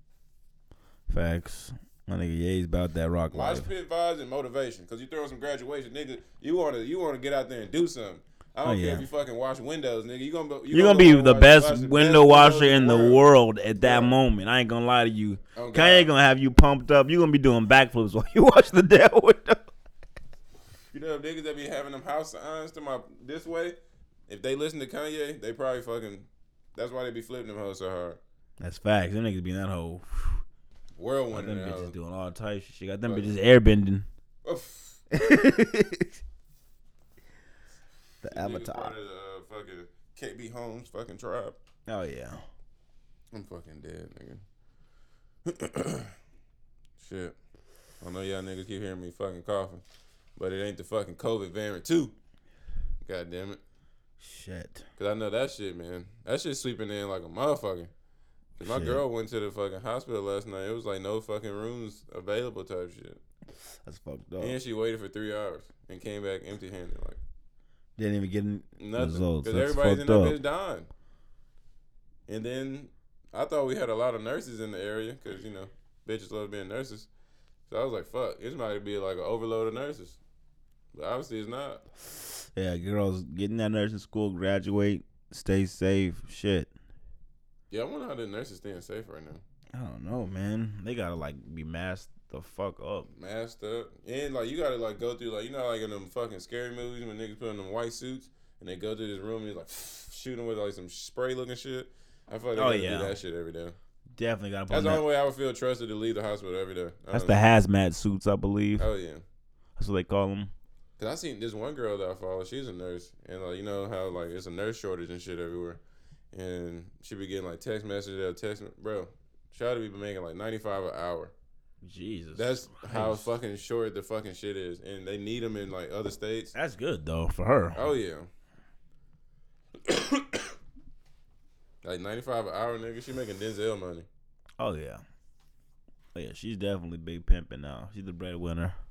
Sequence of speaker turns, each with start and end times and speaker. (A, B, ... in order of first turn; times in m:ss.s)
0:01.1-0:03.7 A
0:03.3-0:13.2 B
0:08.6-0:09.1 A
0:10.7-0:19.7 A
0:13.8-0:14.2 B
0:15.6-0:16.1 B
0:20.9-0:28.2 B
0:28.6-0:30.4 A
0:31.0-0:32.0 B
0:31.3-0:34.1 A
0:33.0-0:33.4 B
0:34.4-0:35.0 B
0:35.1-0:36.2 A
0:38.2-0:39.0 A
0:38.2-0:41.6 B
0:41.9-0:42.4 A
0:43.3-0:44.4 B
0:45.5-0:46.1 B
0:47.0-0:47.4 B
0:48.0-0:49.8 B
0:50.4-0:52.1 B
0:53.0-0:53.6 B
0:54.2-0:54.9 A
0:55.0-0:57.9 B
0:58.6-0:59.0 A
0:58.6-1:03.2 B
1:03.6-1:04.6 A
1:04.4-1:07.2 B
1:08.0-1:10.4 A
1:08.8-1:10.9 B
1:12.3-1:17.1 B
1:17.7-1:20.2 B
1:20.9-1:21.8 B
1:22.3-1:26.7 A
1:27.7-1:29.4 B
1:29.7-1:33.1 A
1:33.1-1:43.8 B
1:42.6-1:43.2 A
1:44.2-1:45.0 A
1:44.7-1:47.4 B
1:47.1-1:48.9 A
1:48.8-1:49.2 B
1:49.8-1:50.5 A
1:51.0-1:55.8 B
1:56.3-2:01.3 B
2:01.8-2:03.3 A
2:02.4-2:06.5 B
2:06.5-2:07.9 A
2:07.8-2:08.3 B
2:09.9-2:10.5 B
2:11.8-2:14.1 B
2:14.6-2:15.0 A
2:16.1-2:18.8 A